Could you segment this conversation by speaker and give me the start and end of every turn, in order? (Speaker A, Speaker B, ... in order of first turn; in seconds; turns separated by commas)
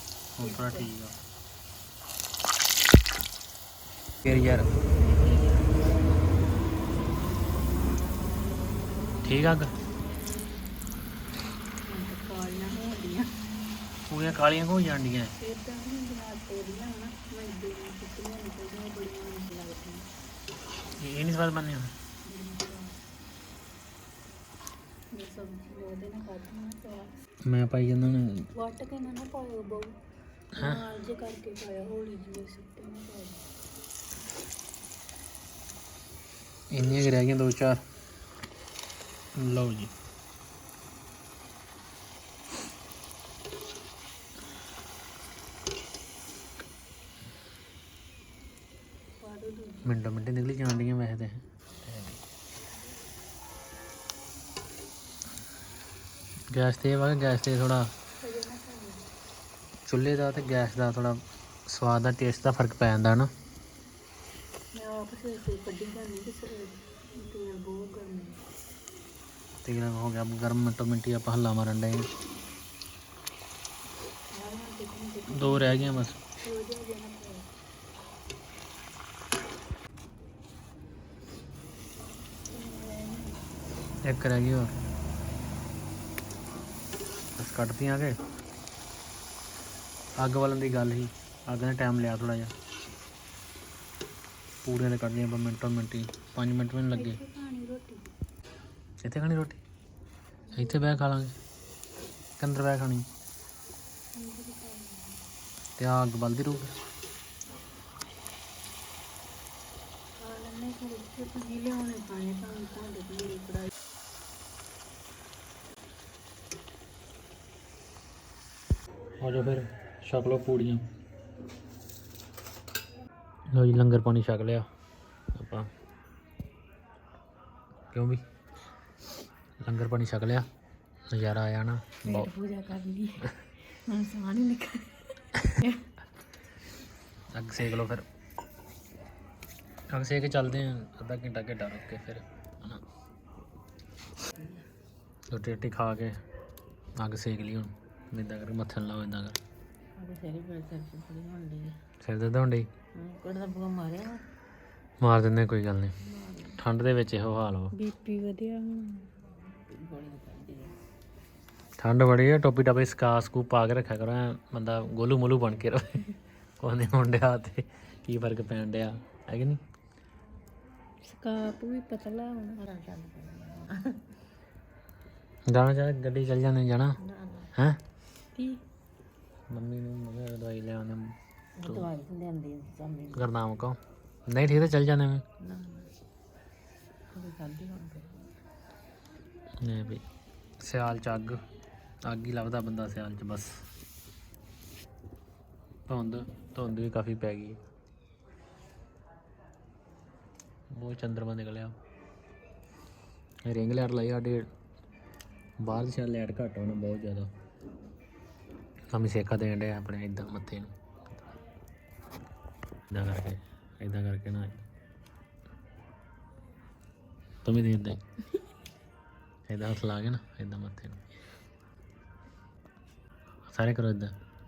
Speaker A: 0.4-1.1, Speaker B: 0.4-0.9, Speaker A: 4.2-4.7, Speaker B: 5.0-5.8, Speaker A: 9.2-9.8, Speaker B: 11.8-13.3, Speaker A: 14.1-15.3, Speaker B: 15.4-20.1, Speaker A: 21.0-21.9, Speaker B: 22.2-23.0, Speaker B: 25.1-27.2, Speaker A: 27.4-28.5, Speaker B: 28.6-30.0, Speaker B: 30.5-33.5, Speaker A: 30.6-30.8, Speaker A: 36.7-37.8, Speaker A: 39.4-39.9, Speaker B: 49.2-50.0, Speaker A: 49.9-52.2, Speaker A: 56.5-57.9, Speaker B: 58.2-59.0, Speaker A: 59.9-63.3, Speaker B: 64.7-68.4, Speaker A: 69.7-72.1, Speaker B: 74.3-77.5, Speaker A: 75.3-76.2, Speaker B: 82.5-83.4, Speaker A: 84.0-84.7, Speaker A: 87.4-88.2, Speaker A: 90.2-92.5, Speaker A: 94.6-97.2, Speaker B: 96.9-98.1, Speaker A: 99.0-99.6, Speaker B: 100.5-101.0, Speaker A: 100.5-101.3, Speaker A: 102.4-103.1, Speaker B: 104.1-105.2, Speaker A: 105.8-106.8, Speaker B: 110.2-113.7, Speaker A: 119.2-120.9, Speaker A: 123.5-124.7, Speaker A: 125.3-125.7, Speaker A: 127.9-128.2, Speaker A: 129.6-130.5, Speaker A: 131.1-132.3, Speaker B: 132.0-135.9, Speaker A: 137.3-138.1, Speaker A: 139.9-142.8, Speaker C: 144.3-144.6, Speaker A: 145.3-146.2, Speaker A: 147.0-149.4, Speaker C: 150.0-151.7, Speaker A: 152.0-152.7, Speaker C: 152.9-154.2, Speaker A: 155.0-155.9, Speaker C: 156.0-156.6, Speaker A: 156.6-157.7, Speaker B: 157.7-159.1, Speaker C: 159.2-160.7, Speaker A: 161.8-166.1, Speaker A: 166.6-169.6, Speaker B: 171.1-172.6, Speaker C: 172.6-174.0, Speaker A: 175.5-177.0, Speaker C: 177.0-177.5, Speaker B: 178.4-178.6, Speaker A: 179.5-181.9, Speaker C: 181.6-183.3, Speaker A: 183.1-185.2, Speaker C: 185.4-185.9, Speaker C: 187.1-188.3, Speaker A: 189.6-190.0, Speaker A: 190.6-191.4, Speaker A: 192.0-193.6, Speaker A: 195.9-197.6, Speaker A: 200.7-201.8, Speaker A: 203.5-204.5, Speaker A: 205.6-207.3, Speaker A: 208.9-210.7, Speaker A: 212.9-214.7, Speaker A: 217.4-218.0, Speaker A: 219.5-221.0, Speaker A: 223.5-224.1